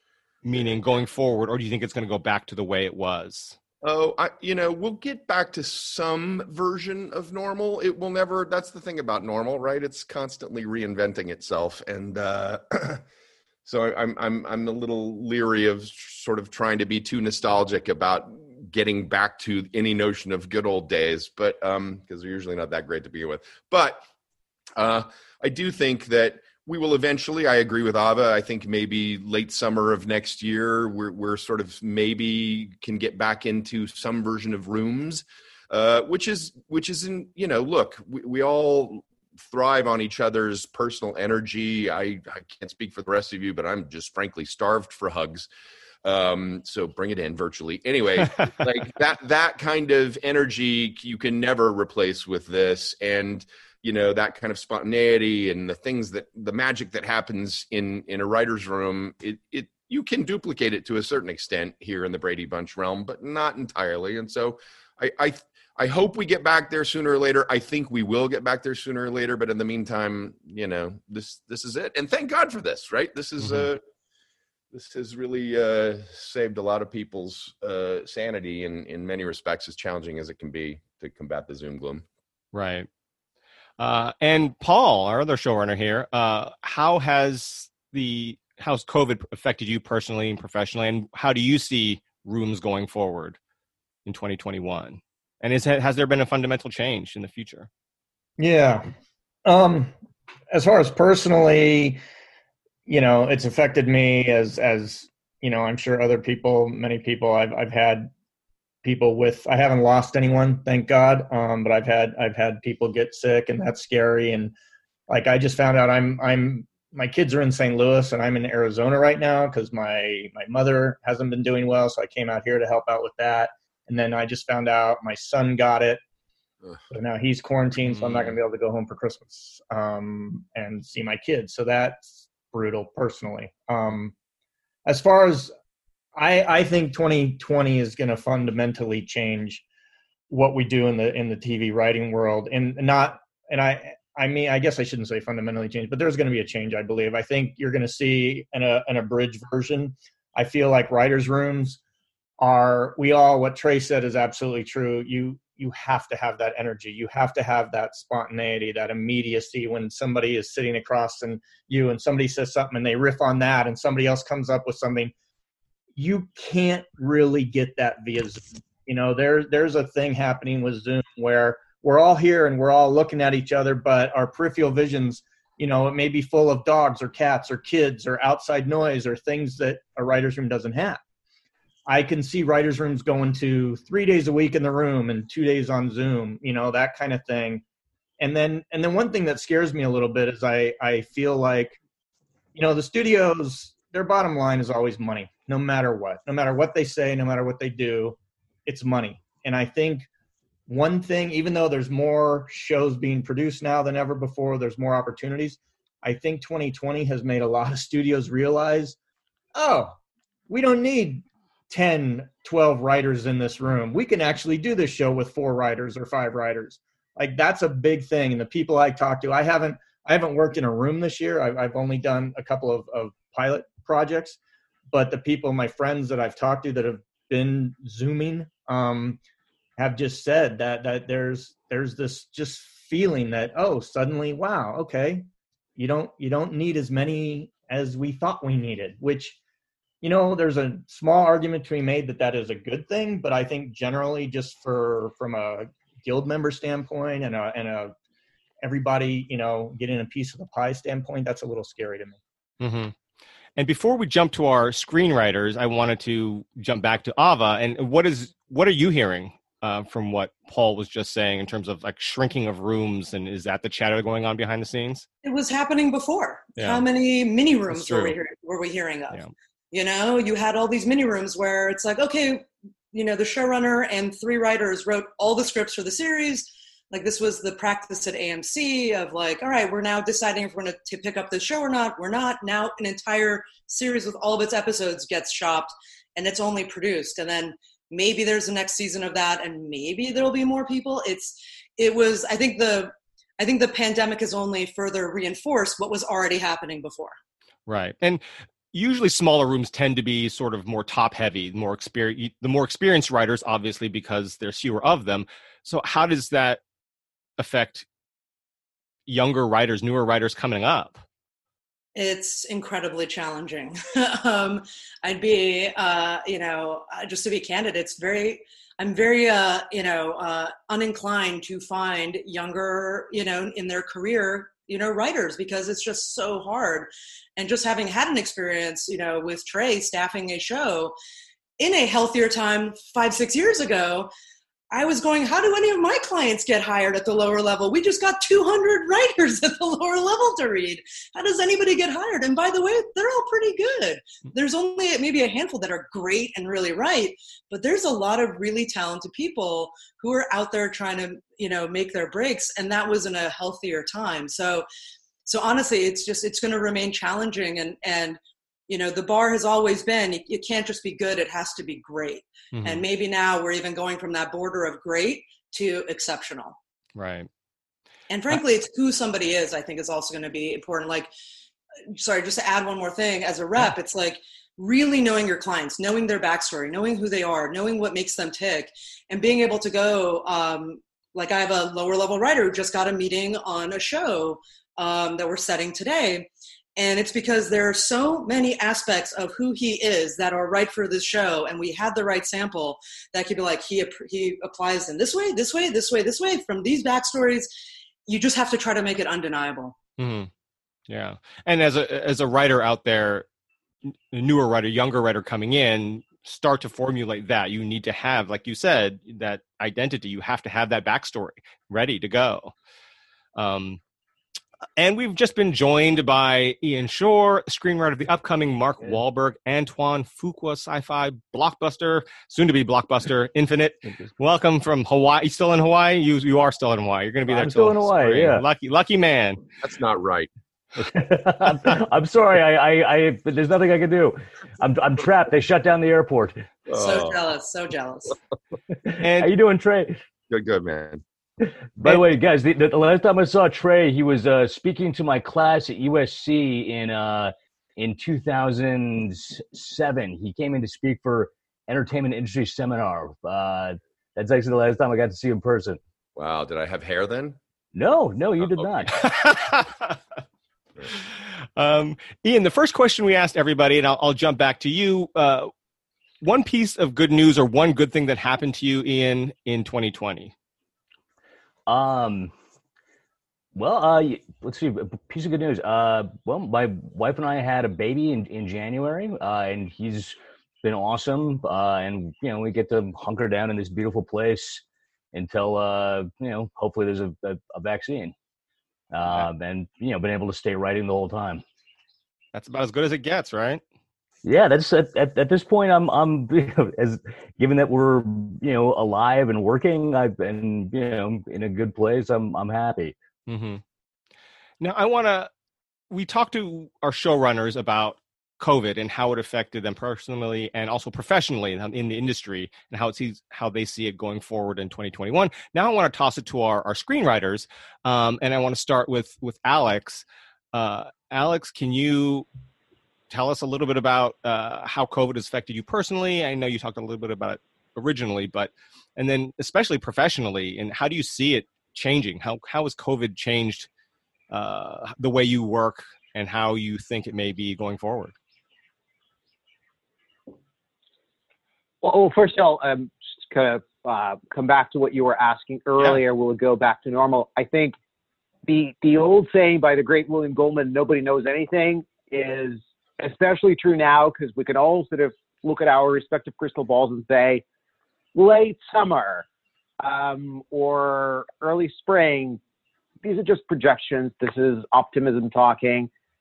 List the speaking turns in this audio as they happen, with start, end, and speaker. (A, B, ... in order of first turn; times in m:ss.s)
0:00.4-0:03.6 A
0:00.5-0:00.8 B
0:03.8-0:13.0 B
0:13.6-0:24.0 B
0:24.8-0:45.5 B
0:46.0-1:13.8 B
1:13.4-1:13.7 A
1:14.7-1:22.0 B
1:22.5-1:22.9 A
1:23.8-1:33.4 A
1:34.0-1:37.7 A
1:38.4-1:38.9 C
1:39.4-1:39.9 C
1:40.5-1:42.0 C
1:42.9-1:48.1 C
1:48.8-1:54.5 C
1:55.1-2:06.0 C
2:06.9-2:14.1 C
2:08.0-2:08.3 B
2:14.8-2:15.5 C
2:16.2-2:19.6 C
2:20.3-2:31.8 C
2:32.4-2:45.1 C
2:46.0-3:01.0 C
3:01.9-3:07.6 C
3:08.2-3:11.8 C
3:12.5-3:20.1 C
3:20.7-3:29.0 C
3:29.5-3:30.0 C
3:30.5-3:44.4 C
3:44.9-3:49.2 C
3:49.8-3:59.4 C
4:00.0-4:07.9 C
4:08.6-4:12.2 C
4:12.6-4:12.9 A
4:13.6-4:25.0 A
4:25.2-4:29.2 D
4:26.6-4:26.8 A
4:27.7-4:28.2 A
4:29.7-4:57.2 D
4:57.7-5:06.6 A
5:07.4-5:07.8 A
5:09.1-5:11.0 A
5:11.9-5:30.9 D
5:31.6-5:34.1 D
5:34.7-5:54.7 D
5:55.2-6:06.6 D
6:02.5-6:02.8 A
6:06.9-6:07.3 A
6:08.1-6:11.1 D
6:11.9-6:37.5 D
6:38.1-6:39.8 D
6:40.0-6:40.3 A
6:40.9-6:43.2 A
6:43.9-6:52.5 A
6:53.4-6:53.8 A
6:54.8-7:09.4 A
7:07.3-7:08.4 E
7:09.6-7:10.3 B
7:10.9-7:16.5 E
7:16.7-7:17.2 B
7:16.7-7:18.2 D
7:19.0-7:19.3 A
7:19.2-7:20.0 E
7:20.3-7:21.0 B
7:21.8-7:35.8 E
7:36.2-7:37.4 B
7:37.7-7:39.0 E
7:38.4-7:38.7 B
7:39.0-7:40.0 A
7:41.6-7:45.5 A
7:46.2-7:50.3 A
7:51.7-7:52.3 E
7:53.5-8:08.1 E
8:08.9-8:11.4 E
8:12.3-8:13.6 A
8:14.2-8:23.0 E
8:23.3-8:23.6 A
8:24.6-8:25.3 A
8:25.9-8:42.3 A
8:43.1-8:53.7 A
8:54.3-8:58.1 A
9:01.8-9:07.7 F
9:08.4-9:17.4 F
9:18.1-9:19.2 F
9:19.8-9:22.4 F
9:23.0-9:25.9 F